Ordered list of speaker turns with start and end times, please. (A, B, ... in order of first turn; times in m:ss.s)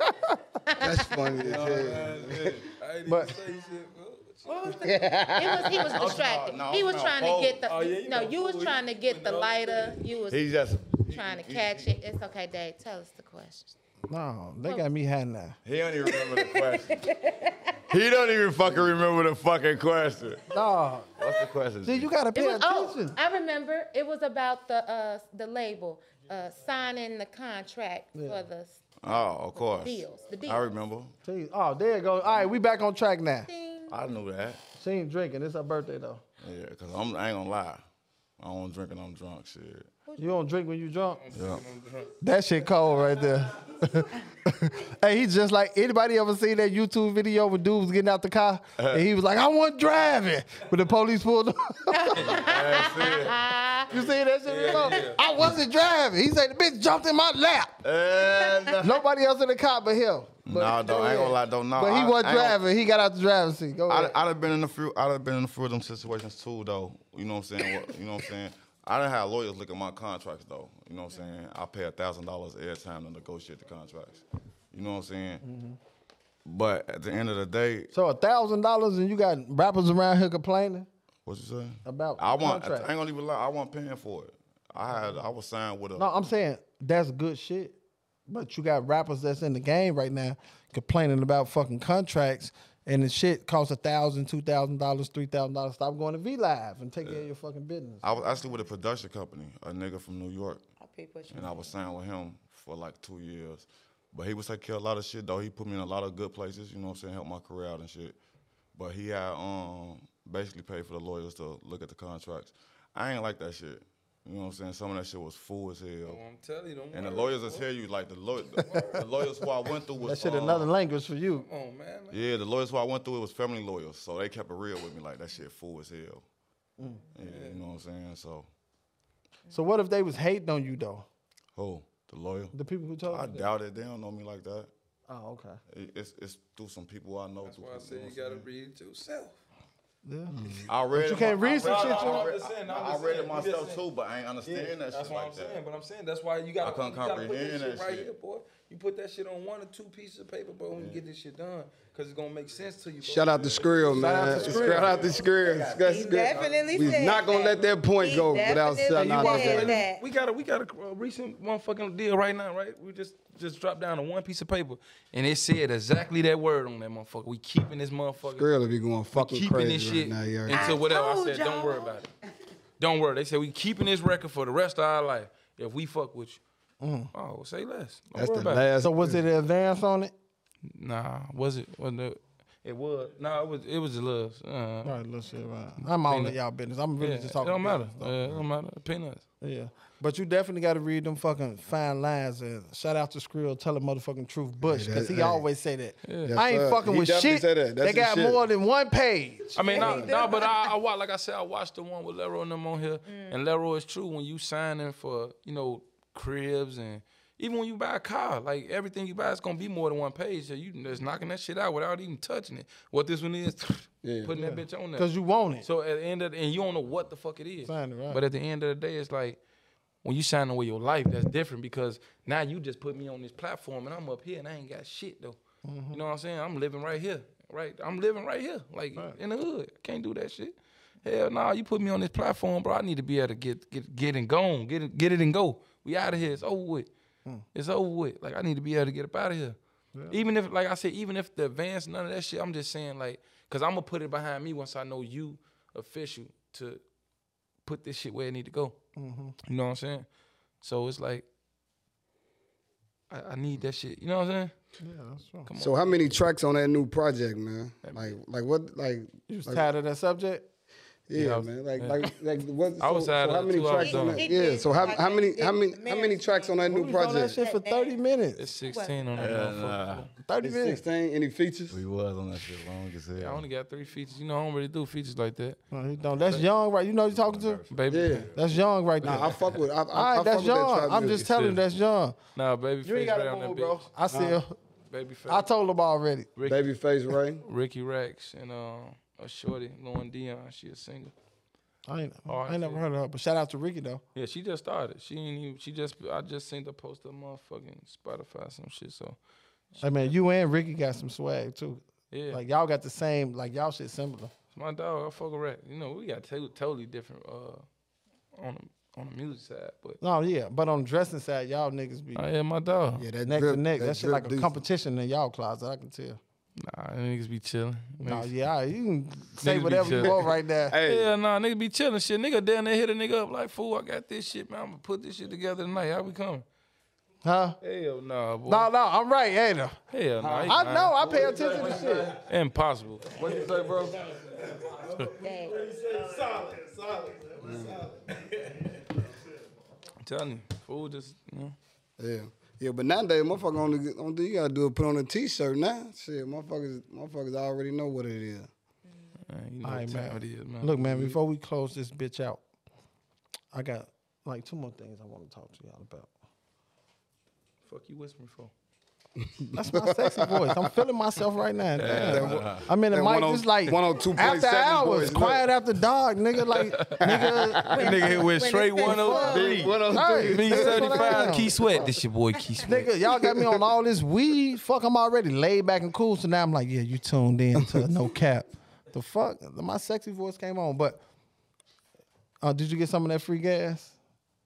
0:00.6-0:01.3 A
0:00.8-0:02.6 B
0:01.4-0:02.6 C
0:01.5-0:04.8 D
0:03.0-0:03.4 E
0:04.5-0:13.7 A
0:04.8-0:06.0 B
0:05.8-0:07.6 C
0:07.7-0:10.0 D
0:10.3-0:11.9 C
0:14.1-0:15.6 E
0:15.6-0:17.0 C
0:16.0-0:17.8 A
0:17.9-0:20.5 C
0:20.5-0:21.1 E
0:21.2-0:22.1 C
0:21.8-0:23.2 E
0:22.3-0:28.8 A
0:28.1-0:28.4 E
0:29.0-0:31.1 C
0:29.5-0:30.7 A
0:31.2-0:33.5 E
0:33.5-0:33.9 A
0:33.9-0:34.6 C
0:34.8-0:36.2 E
0:36.4-0:37.8 C
0:38.4-0:39.9 C
0:40.0-0:40.4 A
0:40.2-0:41.2 E
0:41.2-0:42.1 D
0:41.3-0:41.6 C
0:42.2-0:52.5 E
0:48.8-0:49.0 C
0:51.9-0:53.9 A
0:52.2-0:53.5 C
0:53.9-0:57.7 E
0:54.4-0:55.2 D
0:57.8-0:59.0 C
0:58.8-1:04.1 E
1:00.4-1:02.6 C
1:03.9-1:15.4 C
1:15.4-1:15.8 E
1:16.4-1:17.9 C
1:17.9-1:20.9 E
1:21.2-1:26.1 C
1:21.8-1:22.9 E
1:26.0-1:38.0 E
1:38.0-1:40.6 C
1:40.8-1:41.7 A
1:41.3-1:48.2 C
1:48.7-1:56.2 C
1:56.0-1:57.6 D
1:56.9-2:00.7 C
1:58.6-1:59.0 D
2:00.0-2:01.4 E
2:01.3-2:02.2 D
2:02.1-2:06.2 C
2:06.8-2:07.0 E
2:07.1-2:08.5 C
2:07.2-2:07.6 D
2:09.5-2:11.0 E
2:11.5-2:14.7 C
2:12.5-2:13.5 E
2:15.1-2:15.6 E
2:15.7-2:18.4 C
2:17.4-2:19.4 D
2:20.0-2:20.4 E
2:20.3-2:20.7 B
2:20.6-2:25.6 C
2:20.9-2:22.3 E
2:21.4-2:23.8 D
2:24.4-2:37.7 D
2:26.6-2:28.1 C
2:30.7-2:31.0 C
2:33.0-2:39.8 B
2:33.9-2:35.0 E
2:35.8-2:40.0 A
2:38.9-2:48.5 D
2:48.3-2:50.7 B
2:49.1-2:52.1 D
2:50.5-2:52.0 A
2:52.8-2:56.4 D
2:56.8-2:57.1 E
2:57.1-2:58.6 D
2:58.1-2:59.2 B
2:58.8-3:00.1 E
3:00.7-3:05.0 D
3:04.8-3:08.1 E
3:05.8-3:06.4 D
3:07.0-3:09.2 D
3:09.4-3:20.1 E
3:14.6-3:15.4 B
3:16.0-3:16.3 D
3:16.2-3:18.4 B
3:19.5-3:35.1 D
3:19.6-3:20.7 A
3:23.1-3:23.4 A
3:34.0-3:34.3 B
3:34.3-3:35.6 E
3:35.6-3:39.4 D
3:37.6-3:38.2 E
3:40.0-3:45.4 D
3:45.6-3:46.0 E
3:45.9-3:56.9 D
3:57.5-3:59.6 D
4:00.1-4:06.8 D
4:07.6-4:08.8 D
4:09.0-4:09.3 E
4:09.4-4:10.0 D
4:10.6-4:11.2 D
4:13.1-4:14.5 D
4:14.8-4:15.5 E
4:15.4-4:16.1 D
4:15.6-4:19.7 B
4:17.8-4:18.1 D
4:19.3-4:20.5 E
4:21.1-4:27.4 B
4:21.1-4:22.1 D
4:22.8-4:24.3 D
4:23.7-4:28.0 A
4:26.6-4:28.4 E
4:28.4-4:30.1 D
4:28.7-4:29.0 A
4:29.1-4:30.0 C
4:30.2-4:30.8 E
4:30.4-4:31.8 B
4:31.7-4:33.4 C
4:33.2-4:35.6 D
4:35.7-4:37.6 E
4:37.1-4:39.2 C
4:37.7-4:38.3 D
4:37.9-4:38.3 B
4:38.3-4:42.2 E
4:39.0-4:41.3 B
4:41.2-4:41.6 D
4:42.3-4:43.9 D
4:42.8-4:44.5 E
4:44.1-4:44.4 B
4:44.9-4:45.5 D
4:45.3-4:46.3 E
4:46.4-4:46.6 D
4:46.4-4:47.4 B
4:47.4-4:51.1 D
4:51.9-4:54.0 E
4:52.3-4:52.8 D
4:54.1-4:59.2 D
4:59.8-5:04.3 E
5:02.1-5:02.4 D
5:04.5-5:07.6 D
5:08.3-5:10.0 D
5:10.0-5:12.2 E
5:12.1-5:13.0 D
5:13.0-5:14.5 B
5:13.2-5:16.2 E
5:16.6-5:18.3 D
5:18.0-5:20.8 E
5:19.4-5:20.2 D
5:20.7-5:21.1 B
5:20.8-5:26.4 D
5:27.2-5:27.6 E
5:27.6-5:28.7 D
5:28.5-5:29.8 E
5:29.9-5:33.4 D
5:30.2-5:30.5 B
5:30.4-5:32.1 E
5:31.4-5:31.9 B
5:31.5-5:31.9 F
5:33.1-5:38.7 F
5:33.3-5:33.8 B
5:35.2-5:35.6 A
5:37.4-5:37.8 B
5:40.0-5:41.6 D
5:42.0-5:48.5 B
5:49.3-5:51.2 D
5:49.6-5:52.4 E
5:53.5-5:56.1 E
5:57.6-5:58.5 D
5:59.2-6:00.7 B
5:59.5-6:07.6 E
6:01.8-6:05.5 B
6:01.8-6:02.7 C
6:06.5-6:07.0 D
6:07.0-6:08.1 B
6:07.7-6:09.6 A
6:07.7-6:12.9 D
6:08.8-6:11.6 E
6:09.1-6:11.9 B
6:12.6-6:21.0 E
6:13.1-6:13.6 B
6:17.6-6:17.9 B
6:22.4-6:23.9 E